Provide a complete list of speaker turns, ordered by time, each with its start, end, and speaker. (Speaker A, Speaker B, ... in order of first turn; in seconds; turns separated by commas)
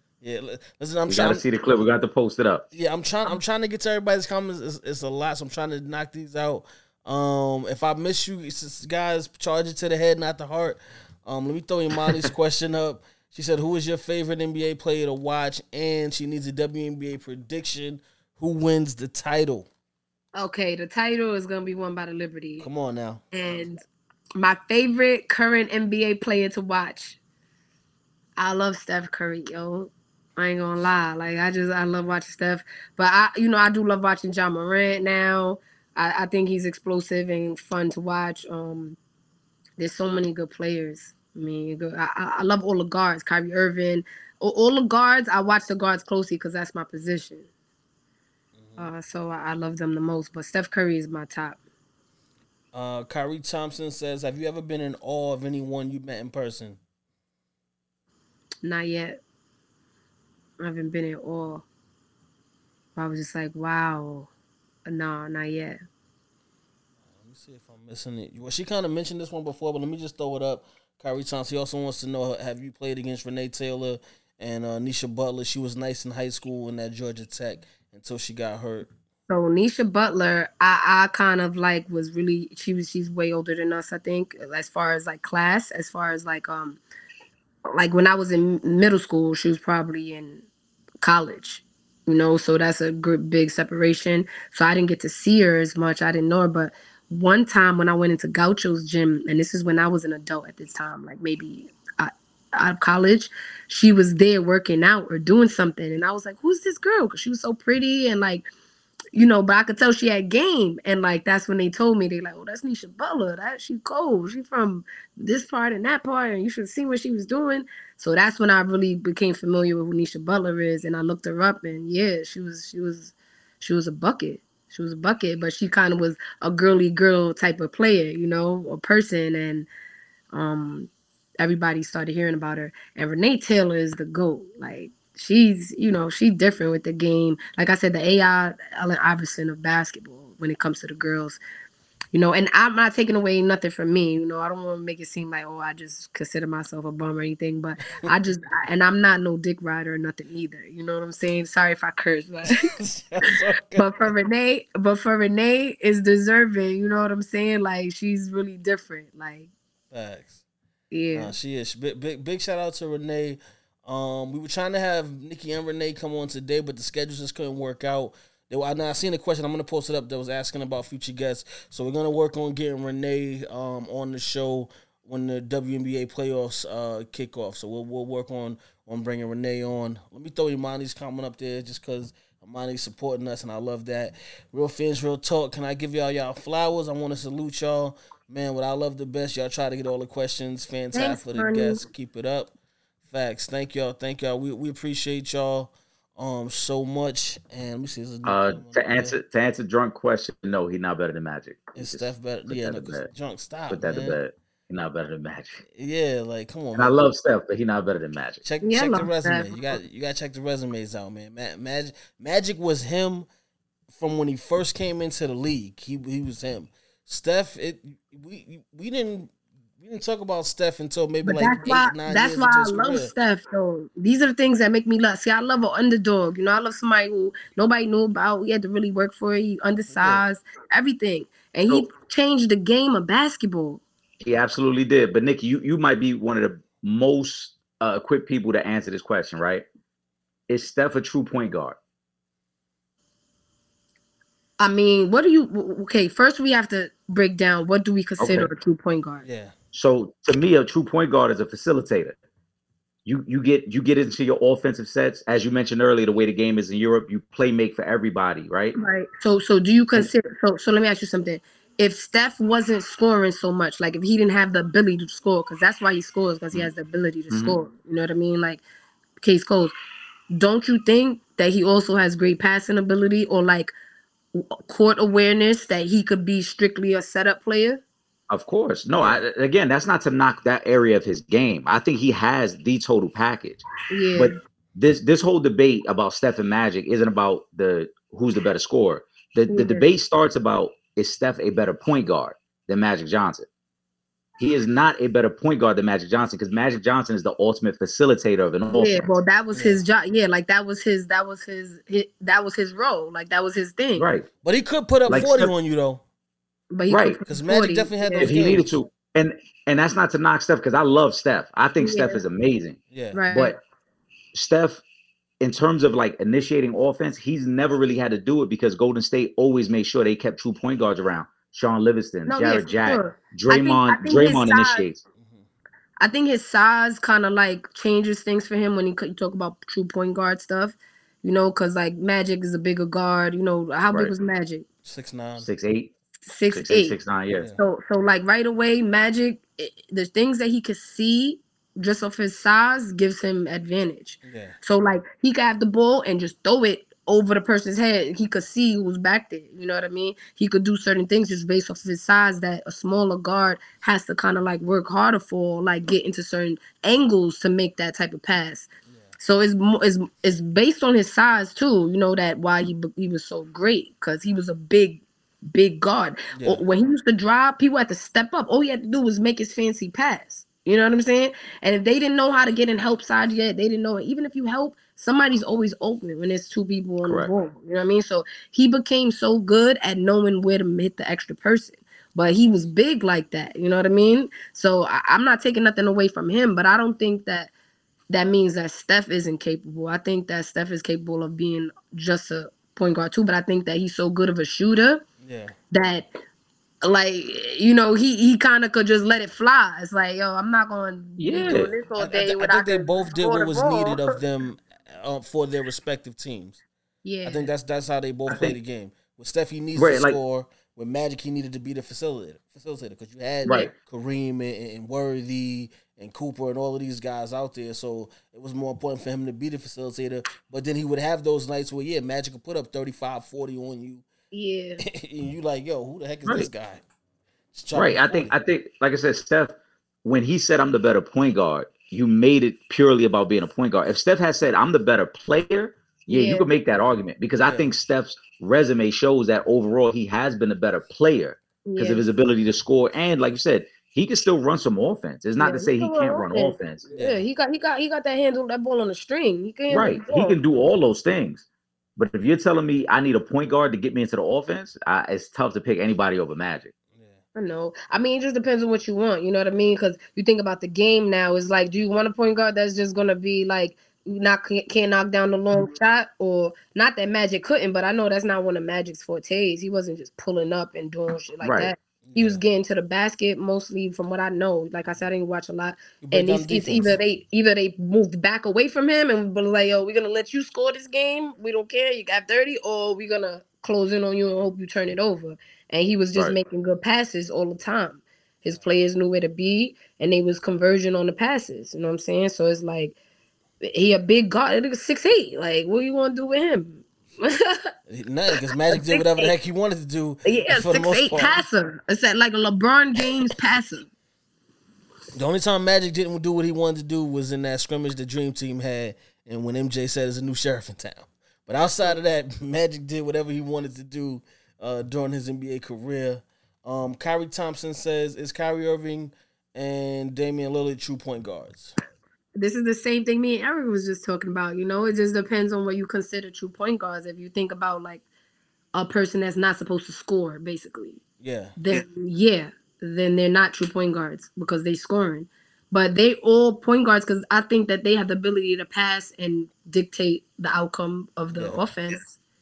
Speaker A: 0.2-1.4, Speaker B: 1.1-2.7, Speaker A: 2.7-19.7, Speaker C: 20.4-22.7, Speaker A: 22.6-23.2, Speaker C: 23.3-23.8, Speaker C: 24.4-27.2, Speaker C: 28.4-39.0, Speaker C: 39.8-47.5, Speaker A: 48.6-48.9, Speaker C: 48.8-51.6, Speaker A: 52.7-56.8, Speaker C: 58.6-59.2, Speaker C: 60.6-61.7, Speaker C: 63.0-64.3, Speaker C: 64.9-65.8, Speaker A: 67.1-78.9, Speaker C: 79.3-86.8, Speaker C: 87.7-90.5, Speaker C: 91.0-108.5, Speaker C: 109.1-129.7, Speaker C: 130.3-141.4, Speaker C: 142.1-152.6, Speaker A: 152.5-153.9, Speaker C: 153.8-159.5, Speaker A: 159.9-160.4, Speaker C: 160.9-161.3, Speaker A: 161.2-192.5, Speaker C: 190.9-191.8, Speaker A: 193.1-199.1, Speaker B: 198.2-203.1, Speaker A: 201.8-204.2, Speaker B: 203.7-205.6, Speaker A: 205.7-206.9, Speaker B: 206.8-208.4, Speaker A: 208.4-213.3, Speaker C: 208.6-209.6, Speaker A: 213.9-223.1, Speaker C: 221.2-233.8, Speaker A: 229.9-230.2, Speaker B: 234.2-239.7, Speaker B: 240.5-241.8, Speaker C: 244.6-249.2, Speaker B: 248.2-248.5, Speaker A: 249.2-249.5, Speaker B: 249.7-252.2, Speaker B: 253.1-258.8, Speaker C: 258.8-268.6, Speaker B: 267.3-267.6, Speaker C: 269.2-269.8, Speaker C: 270.3-273.7, Speaker C: 274.3-277.8, Speaker B: 278.3-283.6, Speaker C: 283.9-284.3, Speaker B: 284.1-293.5, Speaker C: 289.5-289.9, Speaker B: 294.4-299.1, Speaker C: 298.7-304.1, Speaker A: 299.5-299.8, Speaker B: 304.0-304.3, Speaker A: 304.4-306.0, Speaker B: 305.1-305.5, Speaker C: 306.7-308.4, Speaker B: 306.9-307.2, Speaker A: 307.3-308.7, Speaker B: 308.2-312.8, Speaker C: 311.8-312.2, Speaker A: 312.9-313.2, Speaker C: 313.1-313.6, Speaker B: 313.3-313.6, Speaker B: 314.3-314.8, Speaker B: 315.4-325.0, Speaker C: 322.3-324.9, Speaker A: 325.2-325.5, Speaker C: 326.0-334.7, Speaker A: 334.8-335.5, Speaker B: 335.4-335.9, Speaker C: 336.3-337.0, Speaker B: 336.5-337.5, Speaker A: 337.3-337.6, Speaker C: 337.6-358.7, Speaker A: 344.2-344.6, Speaker C: 359.2-387.5, Speaker A: 366.4-366.6, Speaker B: 377.1-377.3, Speaker C: 388.1-395.1, Speaker A: 395.2-395.6, Speaker C: 395.7-396.1, Speaker C: 396.8-404.2, Speaker B: 401.2-401.7, Speaker A: 401.5-406.6, Speaker C: 407.0-407.5, Speaker A: 407.2-424.0, Speaker B: 408.3-408.6, Speaker B: 409.8-410.2, Speaker B: 413.5-413.7, Speaker C: 424.3-424.8, Speaker A: 424.8-426.8, Speaker A: 427.5-428.3, Speaker B: 427.7-446.9, Speaker C: 436.1-436.5, Speaker A: 437.4-437.7, Speaker C: 441.7-442.0, Speaker C: 445.4-450.4, Speaker A: 447.0-447.2, Speaker B: 449.7-451.4, Speaker B: 452.0-456.7, Speaker A: 456.9-457.2, Speaker C: 457.4-492.9, Speaker B: 471.4-471.7, Speaker A: 472.1-472.4, Speaker A: 476.0-477.0, Speaker C: 493.6-497.6, Speaker A: 497.9-501.4, Speaker C: 498.7-499.3, Speaker C: 500.3-503.9, Speaker A: 505.1-521.8, Speaker C: 522.4-528.0, Speaker C: 528.7-531.0, Speaker A: 531.2-531.6, Speaker C: 531.6-542.2, Speaker A: 541.3-541.7